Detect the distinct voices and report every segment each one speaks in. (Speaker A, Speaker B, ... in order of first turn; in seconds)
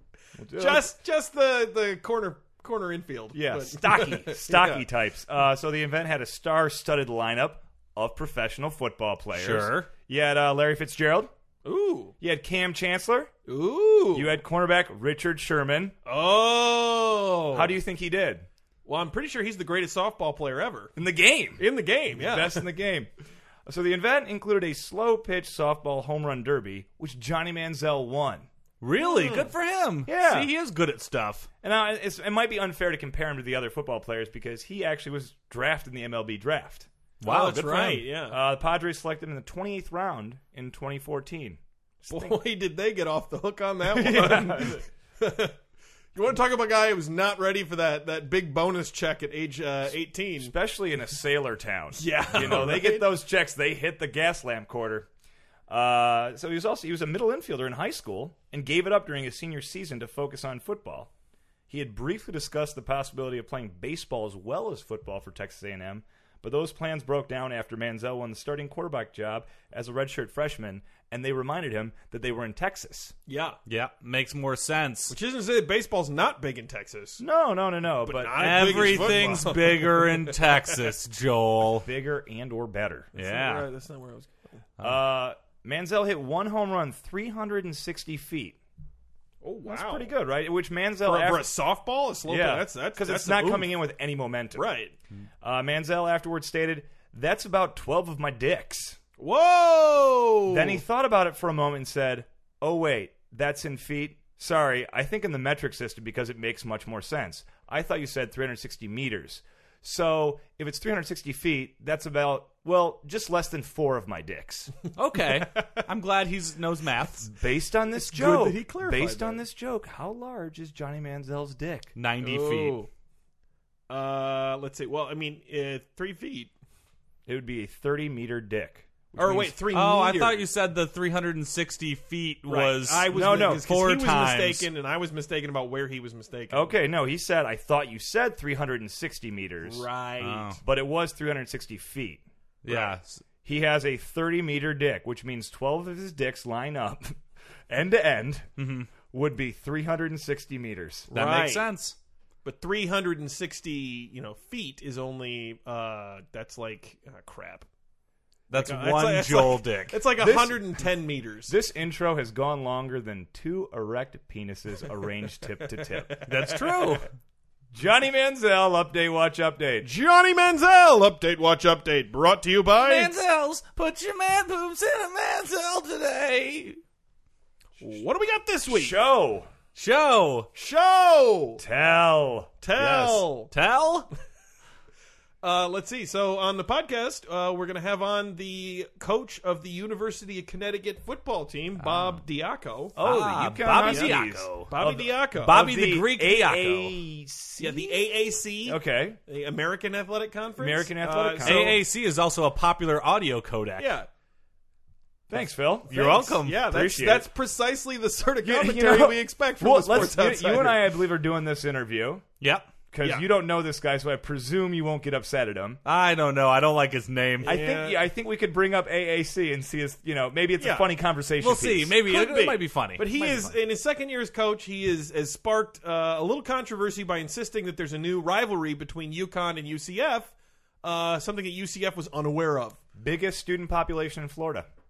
Speaker A: 0.4-0.9, 3.3-11.3, 12.2-13.3, 14.1-15.9, 17.5-18.5, 20.9-21.6, 22.1-23.1, 23.6-28.5, 30.1-30.5, 31.6-36.9, 38.3-42.4, 43.9-44.8, 50.4-55.1, 55.7-61.1, 61.7-73.1, 77.2-79.4, 81.8-83.1, 84.8-88.6, 89.6-91.4, 92.3-94.7, 95.4-99.0, 100.5-114.7, 117.2-121.9, 127.3-129.5, 133.1-133.6, 136.5-139.8, 140.6-142.2, 143.4-148.5, 149.1-151.1, 160.2-160.6, 161.5-166.2, 167.7-169.9, 178.7-179.5, 181.6-182.5, 192.9-198.1, 198.6-199.2, 200.6-201.8, 205.3-205.9, 206.5-207.3, 208.4-212.2, 212.9-215.8, 217.4-221.9, 233.0-234.7
Speaker B: 0.5-4.8, 11.6-12.1, 13.5-14.3, 16.1-17.8, 18.9-20.9, 21.6-22.6, 29.0-29.5, 37.2-38.4, 42.1-45.5, 46.1-50.5, 52.0-53.1, 73.3-73.6, 75.1-77.2, 78.0-80.9, 83.1-84.6, 89.4-90.1, 91.0-93.7, 94.5-94.9, 99.2-100.8, 118.0-119.4, 122.2-122.9, 123.9-126.5, 129.2-130.5, 132.5-136.7, 139.6-140.6, 142.7-142.9, 151.1-151.7, 152.4-157.7, 158.5-161.5, 165.8-167.0, 169.8-173.1, 177.8-179.0, 180.5-181.6, 182.6-183.5, 185.4-192.9, 193.8-195.7, 197.6-201.8, 203.8-204.1, 205.9-210.8, 217.4-218.1, 220.6-220.9, 222.0-232.8
Speaker C: 9.3-9.9, 28.8-31.5, 37.2-38.0, 73.7-75.1, 78.3-81.9, 83.2-83.7, 115.0-117.3, 122.0-122.8, 129.7-134.7, 140.2-140.6, 142.6-143.2, 148.6-148.9, 151.1-151.9, 158.5-160.0, 166.2-167.1, 172.8-176.8, 179.7-180.5, 182.8-184.1, 193.0-194.7, 195.4-196.9, 201.4-203.9, 205.9-206.7, 212.4-212.7, 215.8-217.6, 221.4-223.5